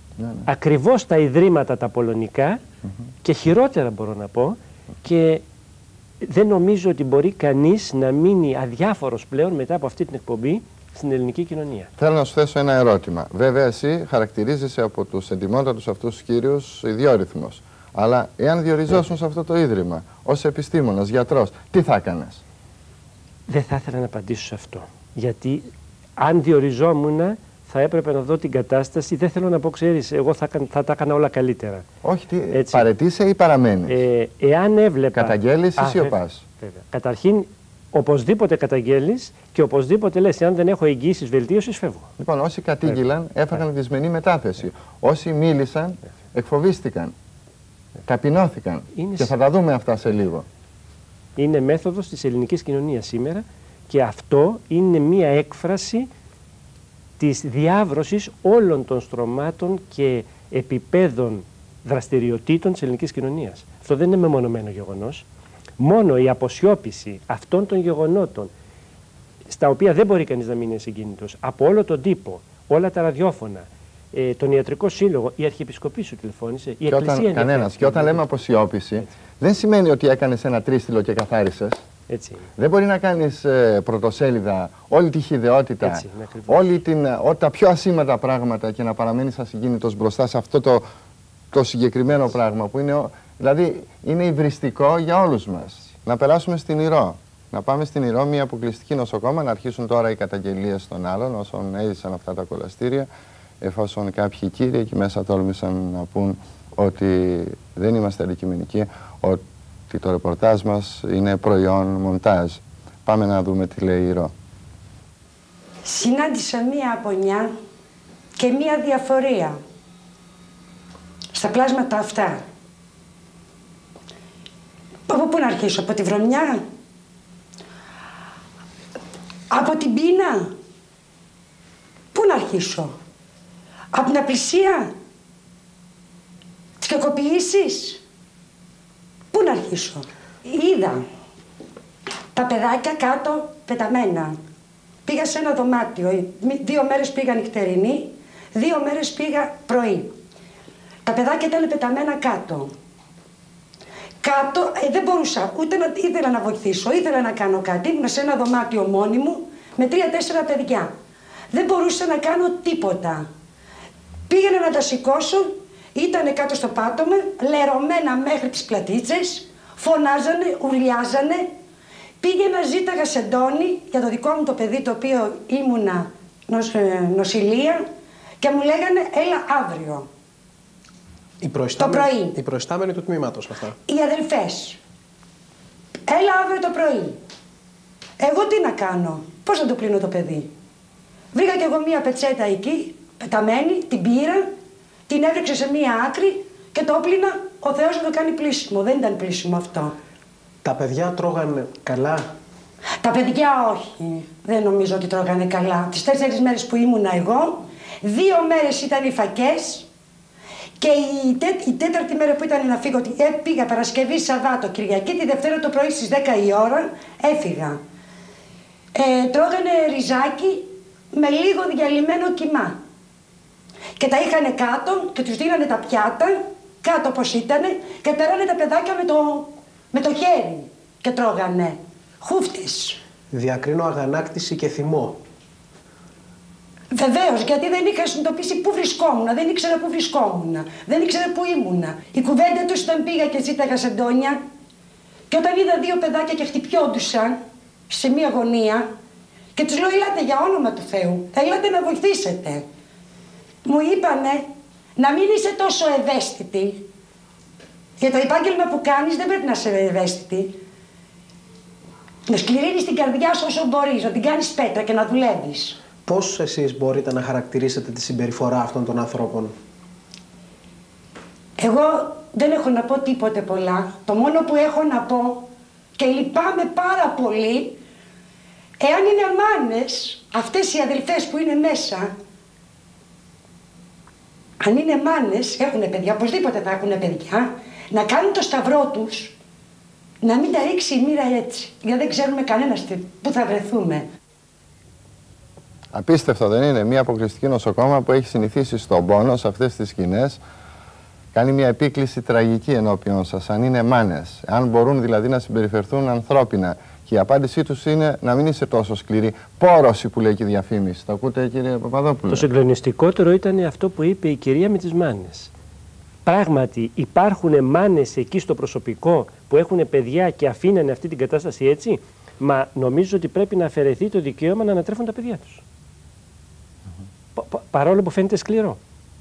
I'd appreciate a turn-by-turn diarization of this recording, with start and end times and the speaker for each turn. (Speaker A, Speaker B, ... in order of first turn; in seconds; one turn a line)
Speaker A: 0.2-0.5
Speaker B: 0.5-2.6
Speaker B: 3.2-5.4
Speaker B: 6.2-11.9
Speaker A: 12.0-22.4
Speaker B: 23.5-31.8
Speaker A: 32.0-34.0
Speaker B: 32.5-32.9
Speaker B: 33.9-42.1
Speaker A: 35.1-36.4
Speaker A: 42.2-47.1
Speaker A: 48.0-50.5
Speaker B: 49.0-49.3
Speaker B: 51.4-56.1
Speaker B: 57.2-65.2
Speaker B: 65.8-68.5
Speaker B: 69.5-78.2
Speaker A: 76.9-81.8
Speaker B: 82.1-82.5
Speaker A: 82.6-90.8
Speaker B: 85.8-86.7
Speaker A: 91.5-103.1
Speaker A: 103.6-114.3
Speaker C: 115.8-117.5
Speaker C: 118.4-119.6
Speaker C: 121.3-122.4
Speaker C: 125.1-126.6
Speaker C: 129.5-130.5
Speaker C: 132.1-132.9
Speaker C: 133.9-134.9
Speaker C: 136.8-138.0
Speaker C: 139.3-141.0
Speaker C: 142.3-144.4
Speaker C: 145.0-150.1
Speaker C: 151.0-152.7
Speaker C: 154.2-160.9
Speaker C: 161.5-163.2
Speaker C: 164.3-171.5
Speaker C: 172.2-177.8
Speaker C: 178.4-180.1
Speaker D: 181.4-183.8
Speaker C: 181.8-182.3
Speaker C: 183.9-184.8
Speaker C: 186.1-187.2
Speaker C: 188.2-190.5
Speaker C: 191.3-194.5
Speaker C: 195.1-199.9
Speaker D: 200.6-202.3
Speaker C: 203.0-209.9
Speaker C: 210.8-217.8
Speaker C: 218.9-222.8
Speaker C: 224.0-233.0
Speaker D: 233.3-235.2
Speaker C: 236.9-244.4
Speaker C: 245.3-248.9
Speaker C: 249.5-252.7
Speaker C: 253.6-256.9
Speaker C: 258.0-260.6
Speaker C: 262.3-265.8
Speaker D: 266.0-269.5
Speaker C: 271.6-277.8
Speaker C: 278.8-282.1
Speaker C: 284.6-289.4
Speaker C: 290.2-294.1
Speaker A: 295.9-300.4
Speaker A: 301.3-312.5
Speaker B: 312.3-315.5
Speaker B: 316.2-325.6
Speaker B: 327.3-328.8